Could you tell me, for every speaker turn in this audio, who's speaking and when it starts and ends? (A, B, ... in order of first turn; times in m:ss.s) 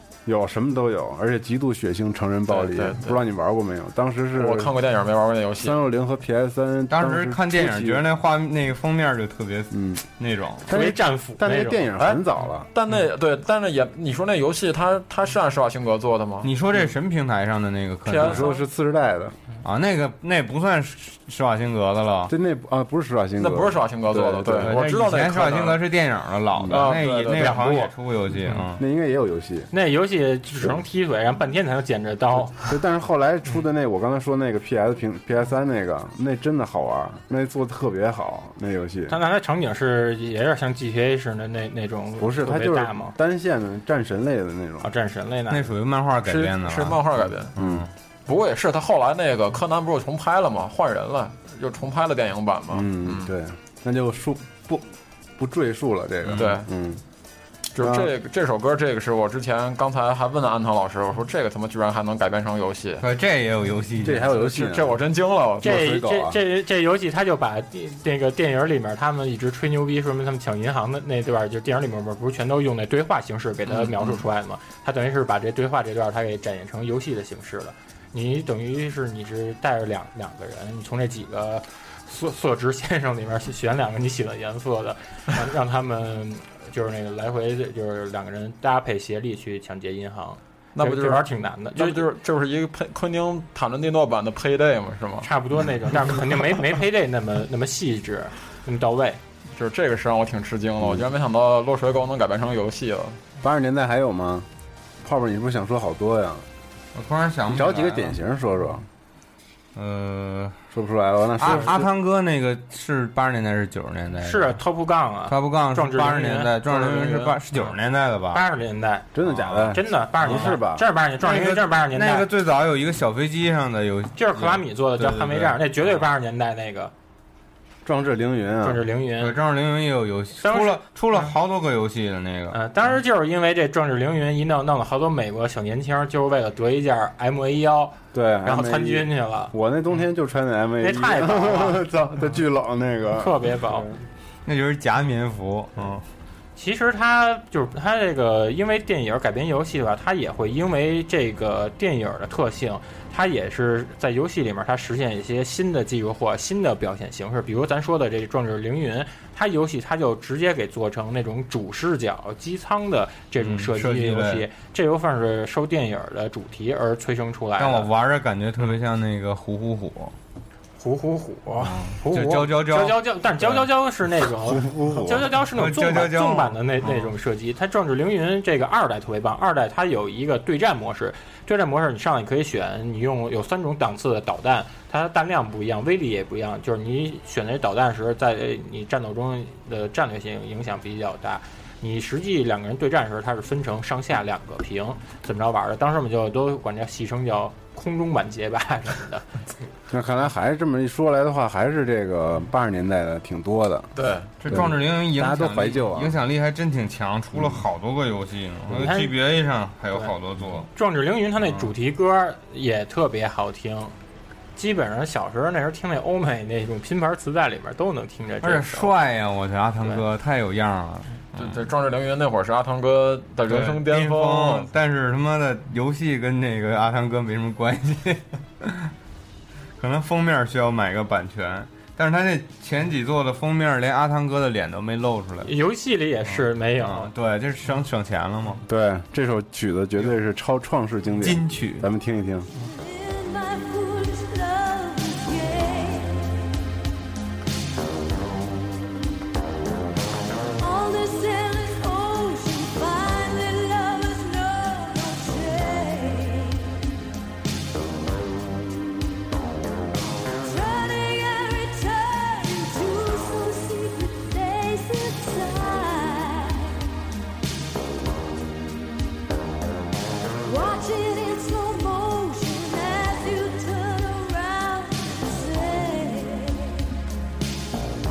0:00.3-0:04.7 A
0:02.5-0:03.2 B
0:04.4-0:05.8 B
0:05.6-0:08.0 A
0:06.9-0:10.7 C
0:09.7-0:10.0 A
0:10.7-0:12.7 A
0:10.7-0:12.2 D
0:12.7-0:16.5 B
0:16.4-0:18.4 C
0:18.1-0:18.5 B
0:18.2-0:19.4 A
0:19.6-0:22.3 C
0:22.3-0:24.7 A
0:23.4-0:25.8 B
0:24.6-0:28.8 C
0:26.6-0:27.0 A
0:26.7-0:27.6 B
0:27.4-0:27.9 D
0:28.8-0:29.7 A
0:29.7-0:32.7 D
0:32.5-0:39.2 A
0:39.1-0:43.2 D
0:42.2-0:44.9 A
0:44.8-0:45.7 D
0:45.5-0:47.0 C
0:46.2-0:47.5 B
0:47.6-0:47.9 C
0:47.6-0:47.8 A
0:48.3-0:53.3 B
0:52.7-0:54.9 A
0:55.4-0:57.0 A
0:56.3-0:56.5 C
0:56.4-0:56.7 B
0:57.7-1:03.0 B
0:57.8-0:58.1 A
1:03.0-1:04.3 C
1:04.0-1:05.0 A
1:04.3-1:05.7 B
1:05.6-1:06.4 A
1:05.6-1:32.1 D
1:13.7-1:14.2 B
1:30.8-1:35.3 B
1:35.2-1:39.2 D
1:39.6-1:43.2 B
1:43.4-1:44.5 A
1:45.0-1:46.5 A
1:47.0-1:48.2 C
1:47.5-1:48.9 A
1:49.8-1:50.6 C
1:50.7-1:51.9 A
1:51.4-1:54.6 C
1:54.2-1:57.7 D
1:55.3-1:58.4 C
1:58.3-1:59.1 D
1:59.1-2:00.8 A
1:59.3-2:00.6 C
1:59.6-2:02.3 D
2:01.2-2:06.1 C
2:04.2-2:06.9 D
2:07.8-2:08.8 A
2:08.6-2:09.4 D
2:09.2-2:12.6 C
2:10.4-2:11.3 D
2:12.5-2:19.5 D
2:18.1-2:23.9 A
2:20.8-2:21.8 D
2:23.2-2:23.9 D
2:24.5-2:26.0 C
2:26.6-2:47.9 D
2:43.4-2:44.5 C
2:47.6-2:50.2 C
2:50.8-3:19.4 D
2:51.6-2:53.7 C
2:54.6-2:57.1 C
2:54.6-2:55.1 A
3:19.9-3:23.9 A
3:24.0-3:24.3 B
3:24.4-3:30.7 C
3:24.5-3:26.2 A
3:27.4-3:27.6 A
3:28.7-3:29.1 D
3:30.7-3:33.9 D
3:34.6-3:38.9 D
3:38.4-3:41.6 C
3:41.4-3:44.7 B
3:43.5-3:48.9 C
3:49.8-3:55.5 C
3:55.4-3:57.1 D
3:56.3-3:58.6 C
3:58.7-4:02.5 A
4:01.2-4:01.9 C
4:02.7-4:06.4 E
4:10.6-4:16.9 E
4:20.4-4:26.9 E
4:30.4-4:37.0 E